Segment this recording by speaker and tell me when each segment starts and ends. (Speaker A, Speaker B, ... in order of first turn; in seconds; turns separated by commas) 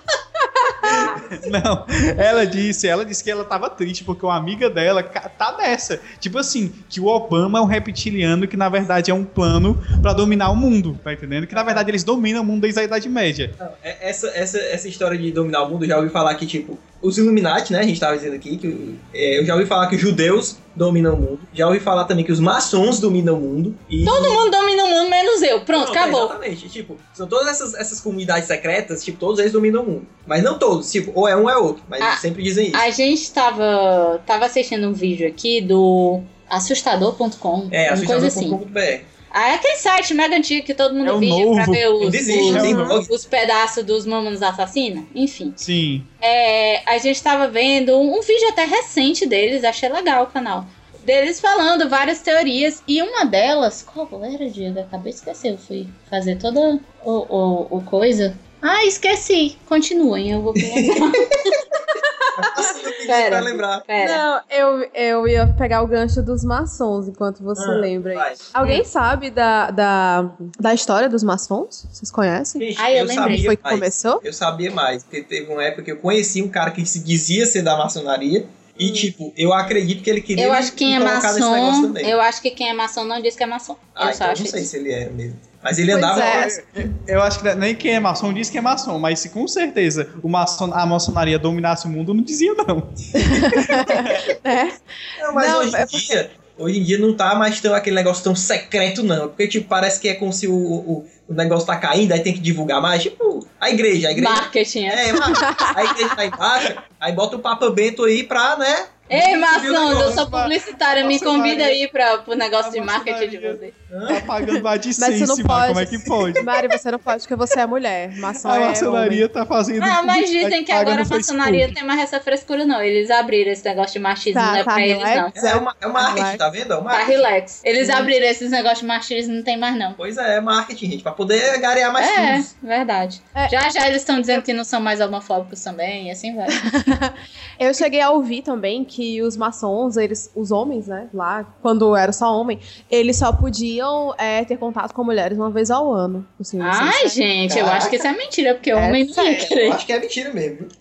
Speaker A: 0.8-1.1, Speaker B: 0.8-13.5, Speaker C: 11.5-11.9, Speaker C: 13.6-24.5, Speaker D: 24.0-26.4, Speaker C: 25.7-32.9, Speaker D: 32.0-38.6, Speaker C: 37.7-39.1, Speaker D: 39.3-45.6, Speaker B: 41.0-41.9, Speaker C: 42.0-43.1, Speaker B: 42.5-42.9, Speaker A: 42.5-43.0, Speaker B: 45.6-46.1, Speaker D: 46.2-61.5, Speaker C: 60.6-61.1, Speaker C: 62.4-63.9, Speaker A: 62.4-62.7, Speaker D: 63.0-64.2, Speaker A: 64.0-72.7, Speaker C: 67.6-68.4, Speaker C: 72.6-82.2, Speaker D: 72.8-73.5, Speaker A: 73.2-74.2, Speaker A: 78.8-79.1, Speaker D: 80.4-84.7, Speaker C: 84.0-86.6, Speaker A: 85.9-86.6, Speaker B: 86.1-94.3, Speaker A: 93.2-96.1, Speaker C: 95.2-110.2, Speaker D: 104.2-105.2, Speaker A: 105.3-106.1, Speaker D: 109.1-113.7, Speaker B: 109.8-111.8, Speaker B: 112.6-116.5, Speaker C: 113.9-114.3, Speaker A: 114.4-119.2, Speaker B: 118.4-121.8, Speaker D: 119.8-125.4, Speaker A: 124.3-126.4, Speaker C: 125.3-127.3, Speaker D: 126.9-130.0, Speaker A: 127.8-128.1, Speaker C: 130.0-132.5, Speaker D: 132.0-136.6, Speaker A: 136.6-147.8, Speaker D: 146.6-149.8, Speaker C: 147.5-148.0, Speaker A: 148.7-149.6, Speaker C: 149.3-150.7